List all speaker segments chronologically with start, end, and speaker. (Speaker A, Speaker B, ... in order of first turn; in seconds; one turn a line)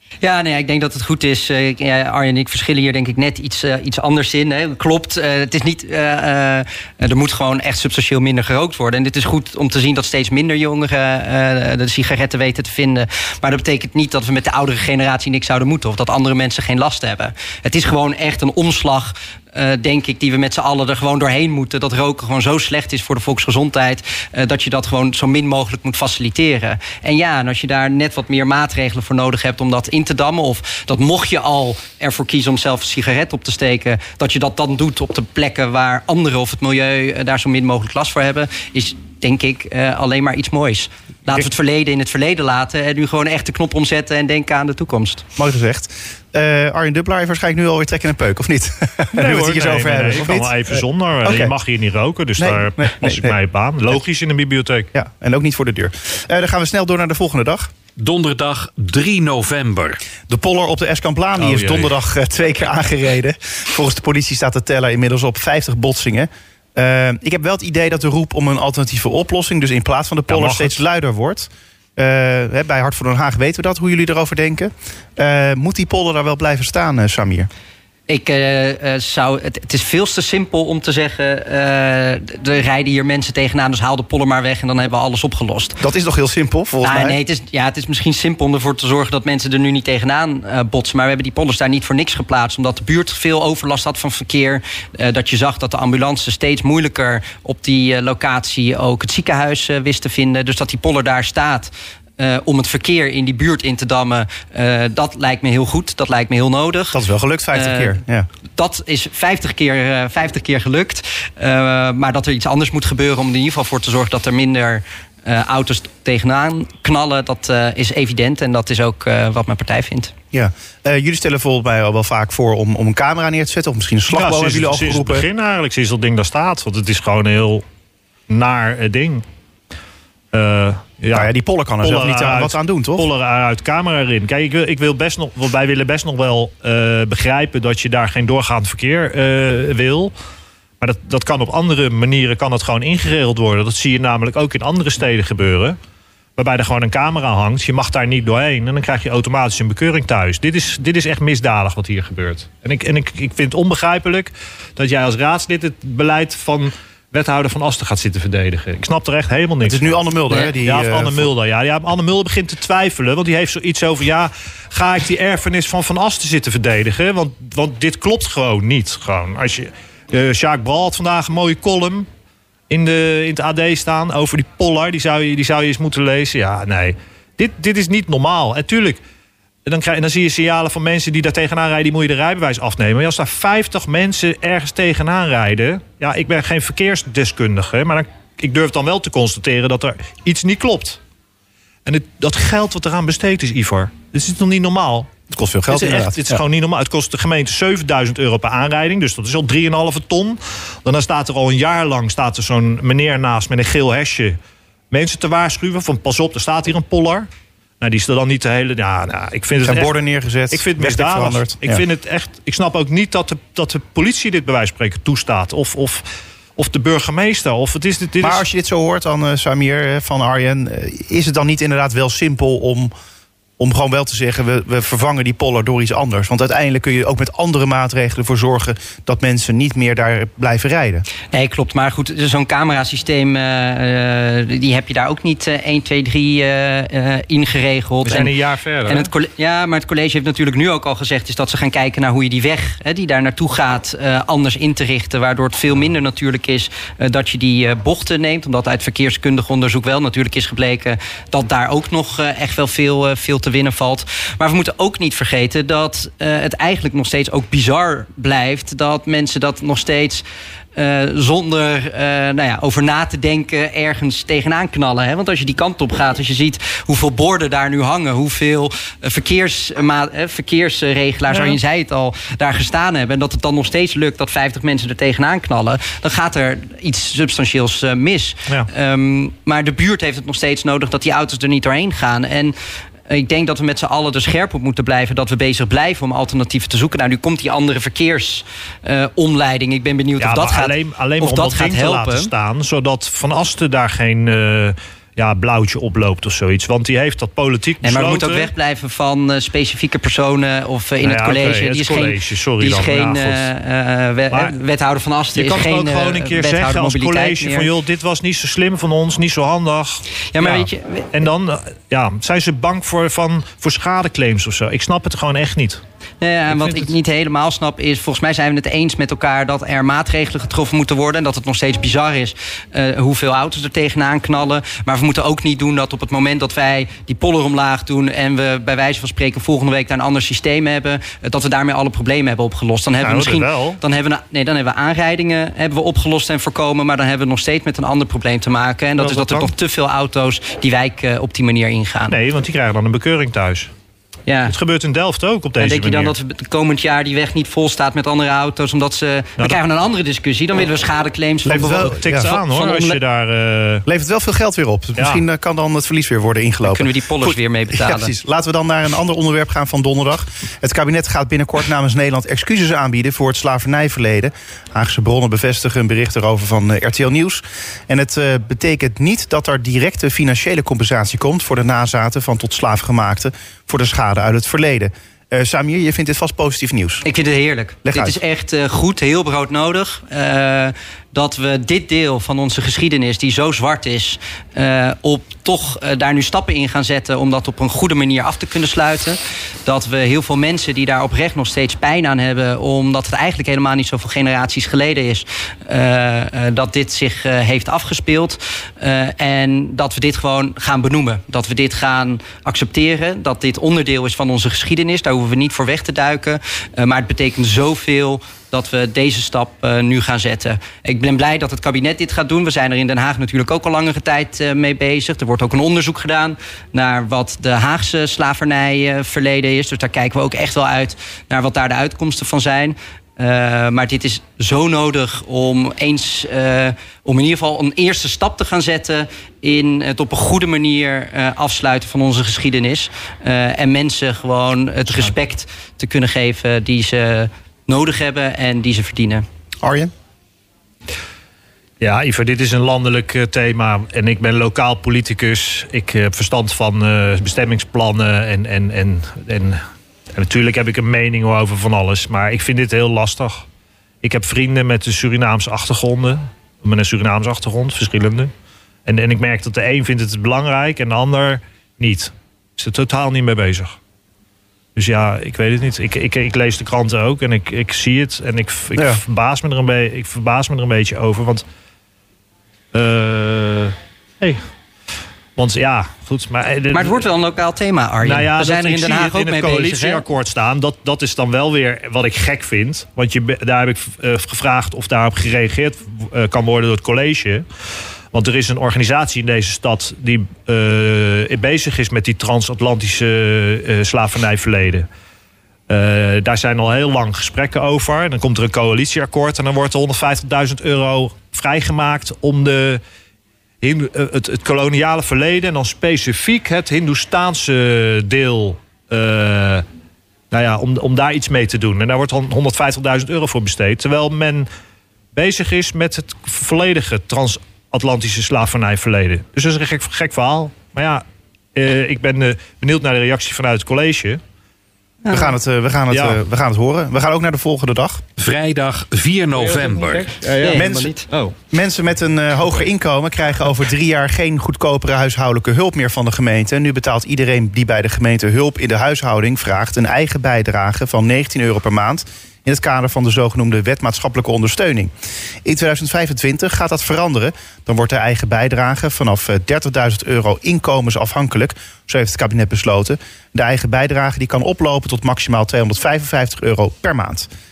Speaker A: 0.2-45.2
Speaker B: 45.4-51.5
Speaker C: 49.1-54.9
Speaker B: 52.4-53.4
Speaker B: 54.9-57.7
Speaker D: 58.0-60.0
Speaker B: 60.3-77.5
Speaker C: 61.4-62.0
Speaker C: 70.3-70.8
Speaker A: 78.1-85.8
Speaker B: 85.8-87.2
Speaker A: 86.8-107.0
Speaker B: 106.9-108.3
Speaker A: 107.5-108.0
Speaker A: 108.6-120.1
Speaker B: 120.3-125.3
Speaker C: 124.1-127.6
Speaker C: 128.3-129.2
Speaker C: 130.3-140.1
Speaker B: 131.1-133.1
Speaker C: 140.8-145.8
Speaker C: 146.4-172.1
Speaker B: 159.6-161.3
Speaker C: 172.7-179.0
Speaker C: 179.7-191.0
Speaker C: 191.9-195.1
Speaker B: 195.3-196.4
Speaker C: 195.7-204.4
Speaker C: 204.9-207.3
Speaker C: 207.8-209.9
Speaker B: 209.6-211.8
Speaker C: 210.5-216.1
Speaker C: 216.6-218.4
Speaker B: 218.2-222.9
Speaker B: 223.6-231.1
Speaker A: 231.3-238.3
Speaker C: 238.1-239.1
Speaker A: 238.9-282.6
Speaker C: 271.3-271.6
Speaker A: 283.1-292.3
Speaker C: 290.2-298.5
Speaker A: 297.8-307.7
Speaker C: 301.0-303.5
Speaker C: 305.3-315.8
Speaker A: 310.3-311.1
Speaker A: 316.2-342.2
Speaker C: 316.5-316.9
Speaker C: 333.0-333.8
Speaker C: 339.0-339.5
Speaker C: 342.1-343.7
Speaker A: 344.3-344.6
Speaker C: 344.5-346.1
Speaker A: 345.6-353.0
Speaker B: 351.5-352.4
Speaker C: 351.7-353.9
Speaker B: 353.9-377.1
Speaker C: 355.0-355.2
Speaker A: 356.6-358.1
Speaker A: 377.1-439.2
Speaker B: 377.9-378.2
Speaker B: 439.6-439.9
Speaker C: 441.8-449.6
Speaker C: 450.1-453.4
Speaker C: 454.0-458.3
Speaker C: 458.9-463.8
Speaker C: 464.8-471.4
Speaker C: 472.7-474.4
Speaker C: 475.4-477.1
Speaker A: 476.7-480.0
Speaker C: 478.0-487.4
Speaker C: 488.1-494.9
Speaker C: 495.7-502.8
Speaker C: 503.6-509.6
Speaker C: 510.3-514.5
Speaker C: 515.1-524.2
Speaker A: 525.0-525.3
Speaker B: 525.1-528.0
Speaker C: 525.9-526.2
Speaker D: 528.2-530.1
Speaker C: 529.9-531.4
Speaker A: 530.4-531.1
Speaker B: 530.5-530.9
Speaker B: 531.5-544.9
Speaker B: 545.5-557.3